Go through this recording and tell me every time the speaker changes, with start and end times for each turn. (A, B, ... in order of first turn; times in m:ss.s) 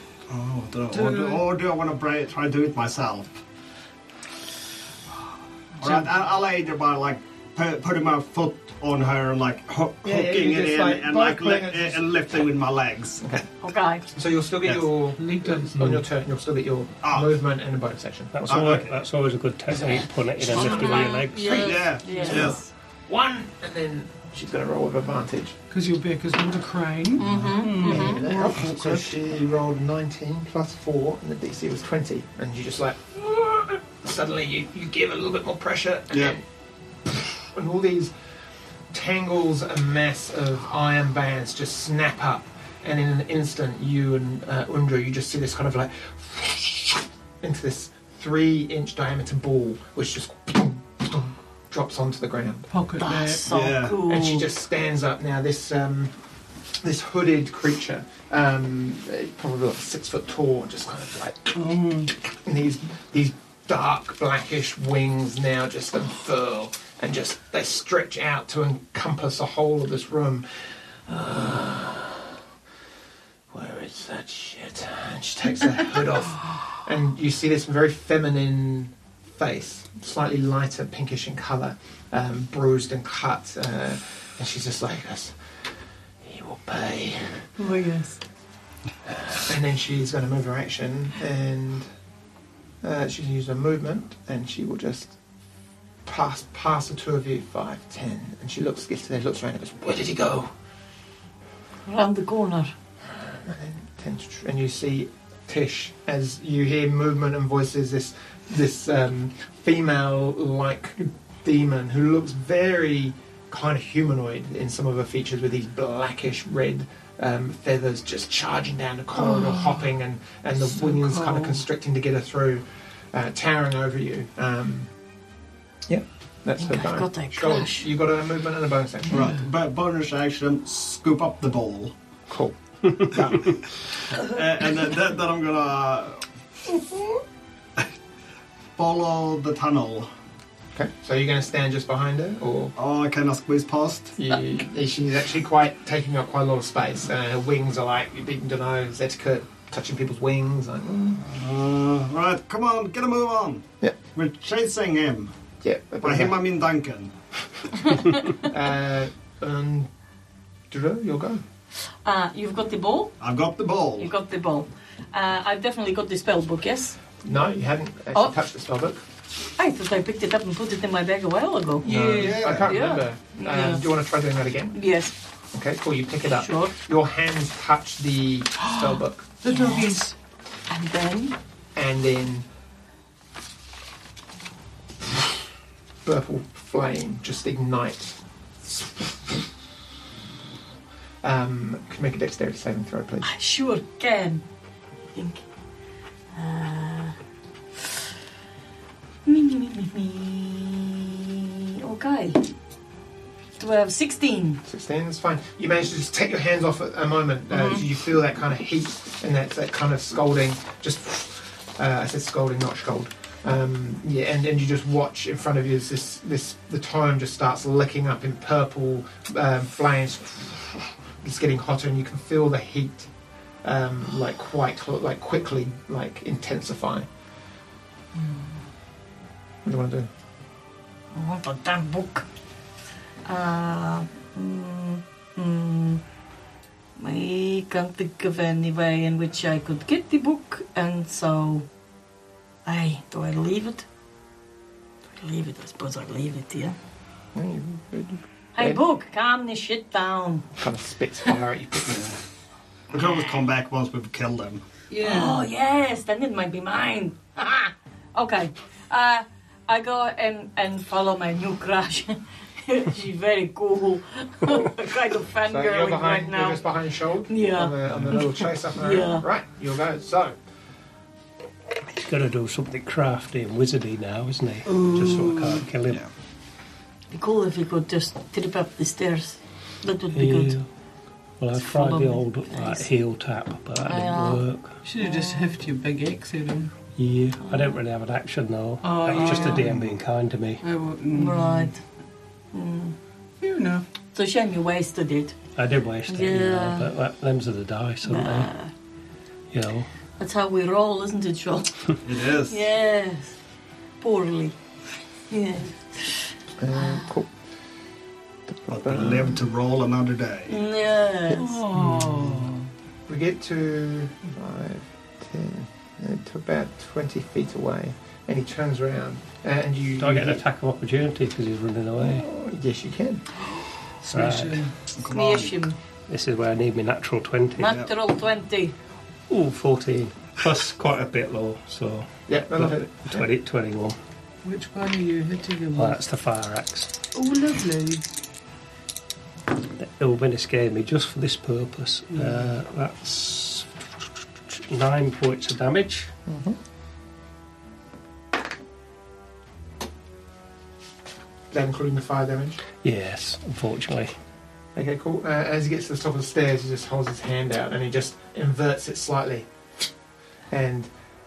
0:00.3-0:03.4 A
0:00.9-0:01.5 B
0:05.8-0:13.4 A
0:05.8-0:06.1 B
0:10.0-0:12.0 C
0:13.6-0:14.1 D
0:14.1-0:18.4 C
0:15.2-0:15.8 B
0:15.8-0:16.0 E
0:17.0-0:17.3 A
0:18.3-0:21.8 E
0:18.5-0:19.0 A
0:19.7-0:25.6 C
0:20.5-0:22.7 D
0:21.5-0:22.6 A
0:25.7-0:29.2 B
0:27.2-0:28.2 D
0:27.3-0:36.4 C
0:36.1-0:36.4 A
0:37.0-0:38.1 C
0:38.9-0:52.7 C
0:52.7-0:53.4 B
0:53.0-0:54.5 D
0:53.5-0:54.0 A
0:54.0-0:56.1 C
0:56.8-1:01.6 C
1:01.5-1:02.1 B
1:02.4-1:12.4 C
1:13.5-1:25.4 C
1:26.2-1:27.5 C
1:27.6-1:28.2 B
1:27.6-1:28.1 D
1:29.1-1:31.9 C
1:32.8-1:35.1 C
1:36.0-1:40.5 C
1:41.8-1:42.7 D
1:43.1-2:04.9 C
2:00.7-2:01.6 B
2:05.9-2:09.3 C
2:06.6-2:07.9 D
2:09.1-2:11.9 A
2:12.3-2:13.6 C
2:14.1-2:16.2 A
2:18.8-2:20.1 A
2:20.7-2:22.7 C
2:22.8-2:24.2 A
2:24.2-2:31.3 C
2:31.2-2:35.3 A
2:35.6-2:36.4 C
2:36.0-2:37.2 A
2:37.9-2:38.2 D
2:38.4-2:39.9 C
2:40.7-2:41.4 C
2:42.0-2:43.1 D
2:43.2-2:44.1 A
2:44.0-2:47.0 D
2:47.2-2:49.0 C
2:49.6-2:51.8 D
2:51.8-2:52.5 B
2:51.8-2:54.8 C
2:52.1-2:52.7 A
2:52.5-2:53.8 D
2:54.7-2:55.1 D
2:55.5-2:59.3 C
2:56.3-2:56.7 D
2:59.4-3:00.1 B
2:59.4-3:00.1 D
3:00.7-3:01.4 D
3:01.7-3:02.5 C
3:06.0-3:09.4 C
3:11.2-3:13.3 C
3:13.2-3:14.4 D
3:15.1-3:15.4 D
3:16.3-3:17.2 D
3:19.2-3:22.4 D
3:23.6-3:24.6 D
3:24.6-3:43.1 C
3:43.6-3:47.1 C
3:48.2-3:48.5 D
3:49.6-3:50.1 C
3:51.1-3:52.2 D
3:53.2-3:56.0 D
3:57.0-4:01.7 D
4:02.6-4:03.8 D
4:05.2-4:06.8 D
4:07.3-4:08.8 C
4:08.6-4:10.5 D
4:10.6-4:12.2 C
4:12.9-4:14.6 A
4:14.9-4:15.4 B
4:15.0-4:26.6 D
4:25.5-4:30.4 C
4:27.3-4:29.2 D
4:32.0-4:36.0 E
4:34.6-4:35.6 B
4:37.1-4:40.6 D
4:40.1-4:40.7 E
4:41.4-4:44.8 E
4:41.6-4:42.9 D
4:43.8-4:44.4 D
4:44.8-4:46.7 B
4:45.0-4:45.6 D
4:47.0-4:50.6 E
4:47.4-4:47.8 D
4:48.8-4:49.8 B
4:49.2-4:49.5 D
4:50.6-4:51.7 B
4:51.1-4:51.8 D
4:52.5-4:52.9 D
4:53.4-4:53.8 B
4:54.1-4:55.4 D
4:55.6-4:58.5 E
4:56.1-4:56.9 D
4:58.0-4:58.7 D
4:59.5-4:59.9 E
5:00.2-5:03.4 D
5:02.0-5:02.6 A
5:04.0-5:04.6 D
5:05.3-5:07.1 D
5:06.6-5:07.3 C
5:08.5-5:09.4 C
5:08.7-5:10.6 A
5:10.5-5:11.6 D
5:11.3-5:12.7 B
5:11.8-5:12.3 C
5:13.1-5:20.4 C
5:20.0-5:22.2 E
5:22.0-5:23.2 C
5:24.0-5:24.8 B
5:24.1-5:24.7 E
5:25.0-5:25.6 A
5:25.1-5:25.8 D
5:26.1-5:27.8 E
5:27.6-5:28.7 D
5:29.3-5:34.0 E
5:32.3-5:33.3 C
5:34.4-5:36.0 B
5:35.7-5:36.9 E
5:37.1-5:38.0 B
5:39.8-5:43.7 E
5:42.2-5:42.4 B
5:44.5-5:46.1 E
5:46.3-5:46.6 C
5:51.5-5:52.6 C
5:52.8-5:54.1 E
5:54.8-5:59.5 C
6:00.5-6:00.9 C